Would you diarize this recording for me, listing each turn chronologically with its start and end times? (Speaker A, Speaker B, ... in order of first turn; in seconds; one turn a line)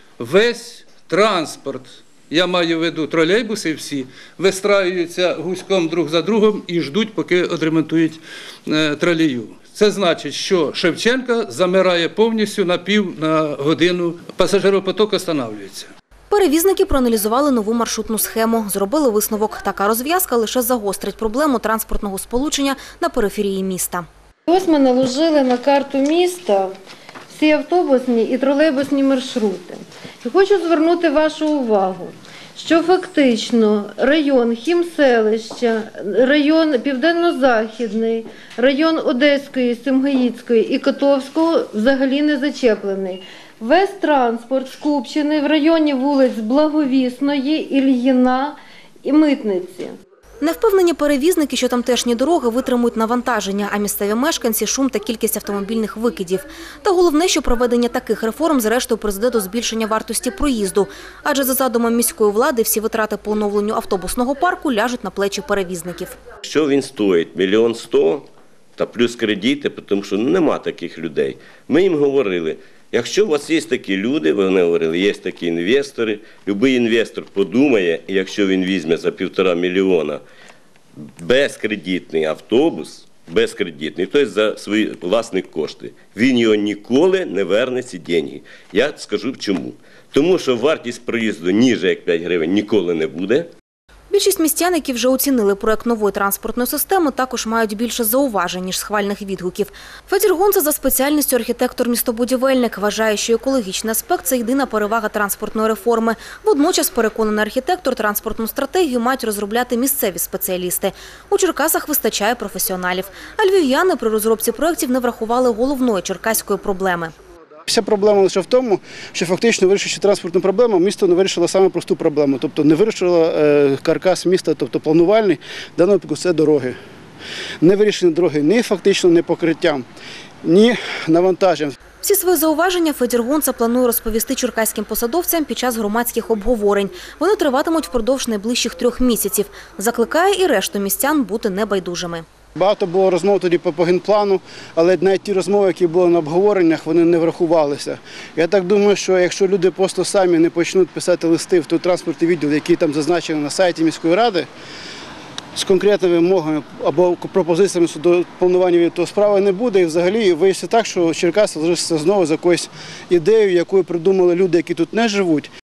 Speaker A: 0.2-15.9
Speaker B: 16.3-24.1
Speaker C: 24.5-26.7
Speaker C: 27.3-50.0
Speaker B: 50.4-66.2
Speaker D: 66.5-68.3
Speaker D: 68.8-80.2
Speaker D: 81.0-93.5
Speaker B: 94.1-117.1
Speaker E: 117.7-126.8
Speaker E: 127.6-129.8
Speaker E: 130.4-131.8
Speaker B: 132.0-142.2
Speaker E: 142.6-154.5
Speaker E: 155.5-165.5